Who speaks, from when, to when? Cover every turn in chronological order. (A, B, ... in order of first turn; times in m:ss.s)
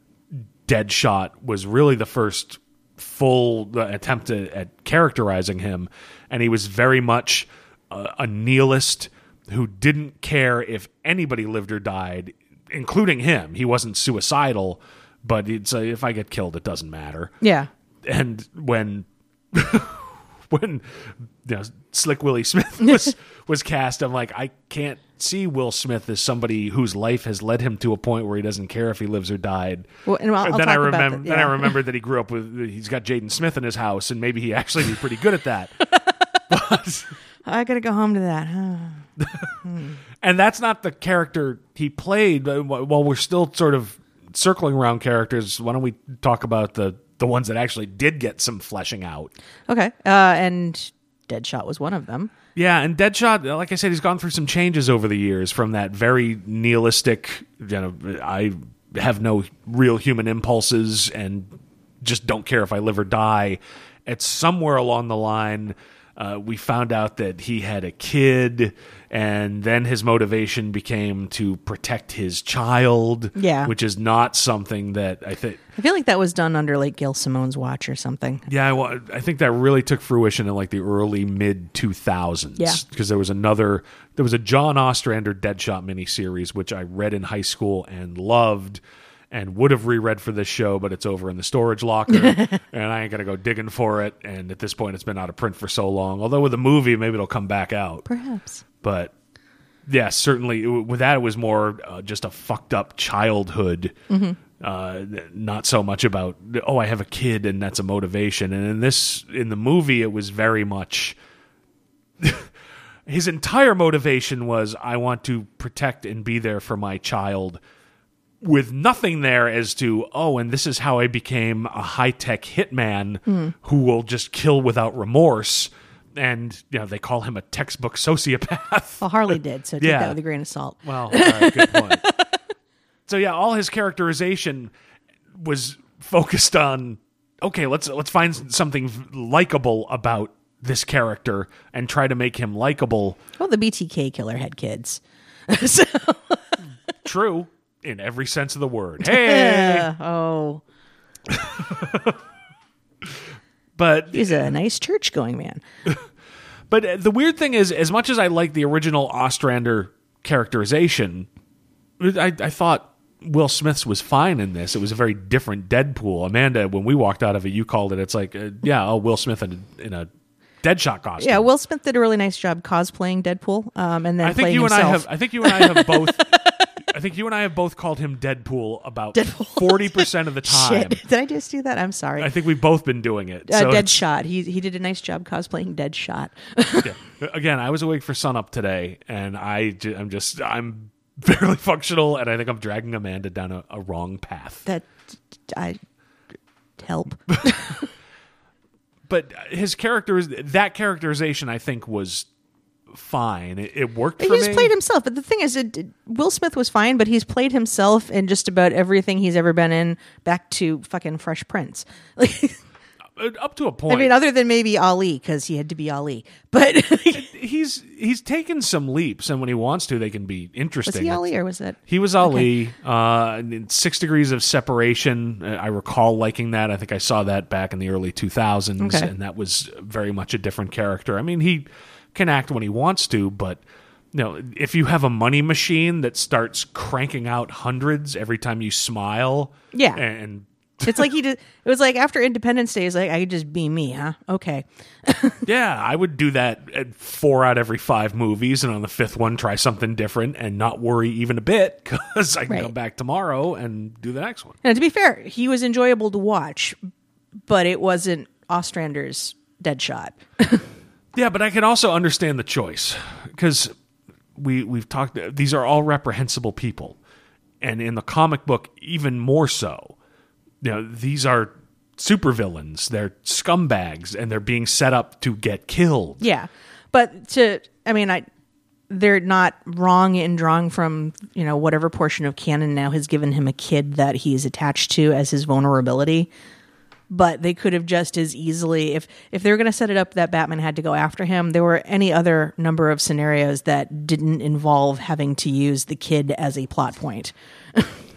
0:00.6-0:17.3 A
0:17.4-0:17.7 B
0:18.0-0:35.8 A
0:30.1-0:31.7 B
0:36.5-0:37.1 A
0:37.5-0:39.0 B
0:39.2-0:39.5 A
0:40.2-0:49.3 A
0:49.7-0:52.3 B
0:52.6-1:15.6 A
1:13.4-1:13.7 B
1:15.8-1:18.4 B
1:18.5-1:38.0 A
1:32.1-1:32.6 B
1:38.1-1:38.6 B
1:38.8-1:39.1 A
1:39.9-1:44.0 A
1:44.1-1:44.4 B
1:44.6-1:51.2 A
1:52.2-1:52.5 A
1:53.1-1:57.6 A
1:58.4-2:10.2 A
2:03.3-2:03.5 B
2:09.0-2:12.4 B
2:10.8-2:12.0 A
2:13.1-2:14.7 A
2:15.3-2:23.2 A
2:23.4-2:26.6 B
2:27.0-2:29.9 A
2:29.0-2:30.6 B
2:31.3-2:32.2 A
2:33.8-2:34.4 A
2:34.1-2:35.6 B
2:36.7-2:41.3 A
2:42.0-2:50.1 A
2:50.6-2:51.4 A
2:51.2-2:56.7 B
2:54.2-3:01.0 A
2:59.1-3:02.3 B
3:02.2-3:04.0 A
3:03.5-3:06.9 B
3:06.8-3:14.6 A
3:15.5-3:15.8 B
3:16.8-3:17.9 B
3:19.1-3:22.3 A
3:22.9-3:24.7 A
3:24.2-3:32.6 B
3:33.2-3:34.1 A
3:33.9-3:37.3 B
3:37.1-3:41.2 A
3:40.9-3:42.5 B
3:41.9-3:53.6 A
3:48.8-3:49.1 B
3:54.1-4:01.1 A
3:59.7-4:00.0 B
4:00.8-4:05.4 B
4:05.4-4:14.6 A
4:14.6-4:16.8 B
4:17.5-4:20.6 B
4:21.1-4:23.7 A
4:24.4-4:27.0 A
4:27.6-4:30.0 A
4:30.6-4:36.2 A
4:36.2-4:38.3 B
4:38.9-4:46.3 B
4:47.1-4:58.0 B